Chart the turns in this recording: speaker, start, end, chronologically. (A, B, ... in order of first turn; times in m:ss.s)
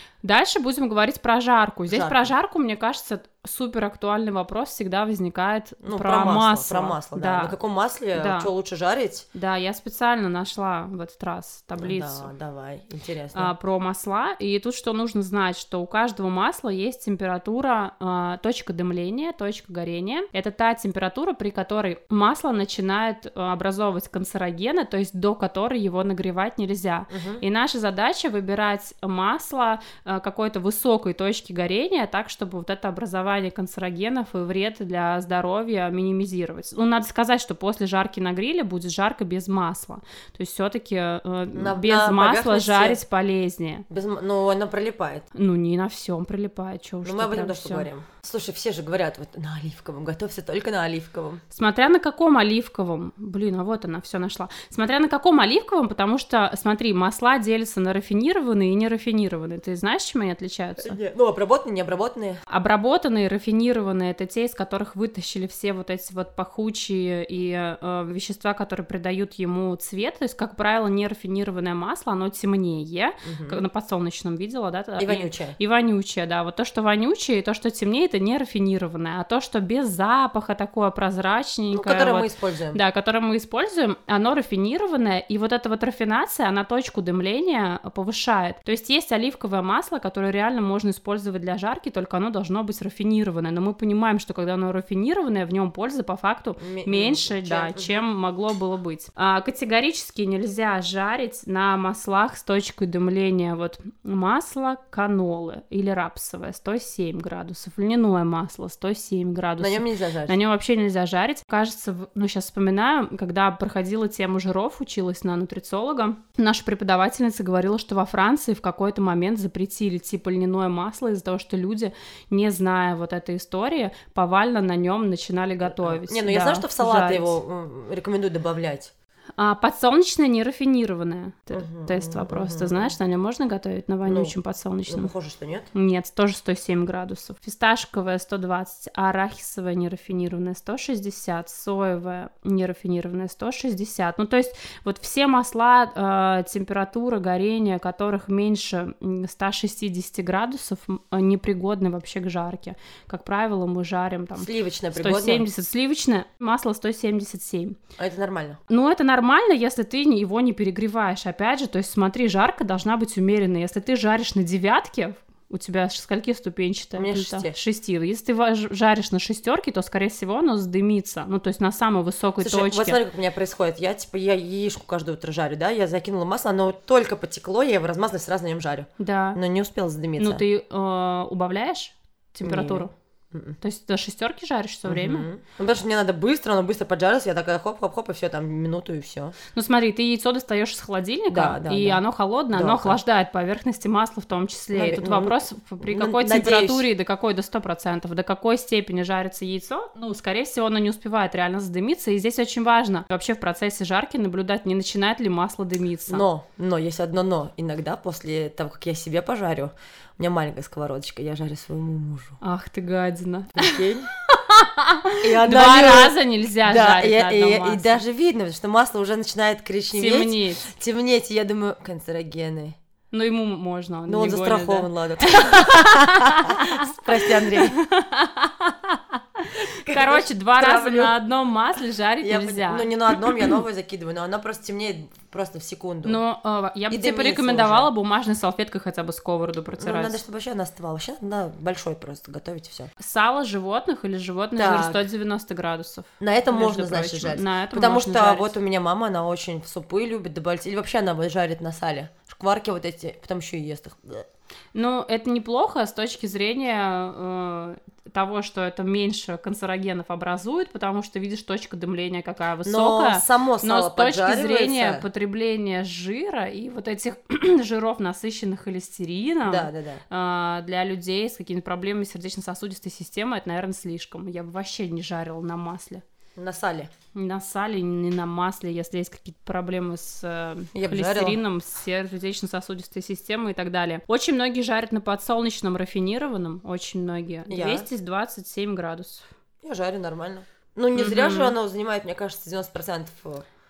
0:00.2-0:07.6 A
0:01.9-0:02.3 B
0:05.8-0:09.3 B
0:08.2-0:08.5 A
0:09.3-0:12.3 A
0:11.8-0:13.5 B
0:13.4-0:43.8 A
0:27.1-0:27.4 B
0:41.6-0:43.0 B
0:43.9-0:45.3 B
0:45.4-0:47.9 A
0:47.0-0:51.4 B
0:51.5-1:01.0 A
1:00.8-1:02.4 B
1:02.5-2:07.4 A
1:13.2-1:13.6 B
1:15.0-1:15.6 B
1:21.7-1:22.8 B
1:36.6-1:38.0 B
1:49.6-1:50.4 B
2:05.6-2:08.9 B
2:09.4-2:15.1 A
2:11.5-2:13.0 B
2:14.1-2:14.4 B
2:14.9-2:15.7 B
2:15.7-2:37.8 A
2:34.4-2:35.5 B
2:38.0-2:38.6 B
2:38.7-2:53.0 A
2:47.0-2:47.6 B
2:52.4-3:00.4 B
2:59.0-2:59.4 A
3:00.2-3:02.9 A
3:02.4-3:03.6 B
3:03.6-3:05.3 A
3:04.9-3:09.4 B
3:09.5-3:26.2 A
3:11.3-3:12.0 B
3:12.5-3:13.0 B
3:14.7-3:16.8 B
3:26.1-3:32.4 B
3:32.4-3:38.0 A
3:33.6-3:34.1 B
3:35.2-3:42.8 B
3:39.9-3:40.7 A
3:43.1-3:53.6 A
3:44.1-3:47.8 B
3:49.7-3:51.2 B
3:52.2-3:56.2 B
3:56.0-4:00.2 A
3:56.9-3:57.9 B
3:59.8-4:02.9 B
4:03.0-4:08.6 A
4:04.6-4:05.1 B
4:06.2-4:14.3 B
4:14.8-4:36.0 A
4:22.6-4:25.0 B
4:29.5-4:30.0 B
4:36.4-4:36.9 B
4:37.2-4:49.3 A
4:40.8-4:41.4 B
4:47.5-4:47.9 B
4:49.6-4:53.5 B
4:51.0-4:51.6 A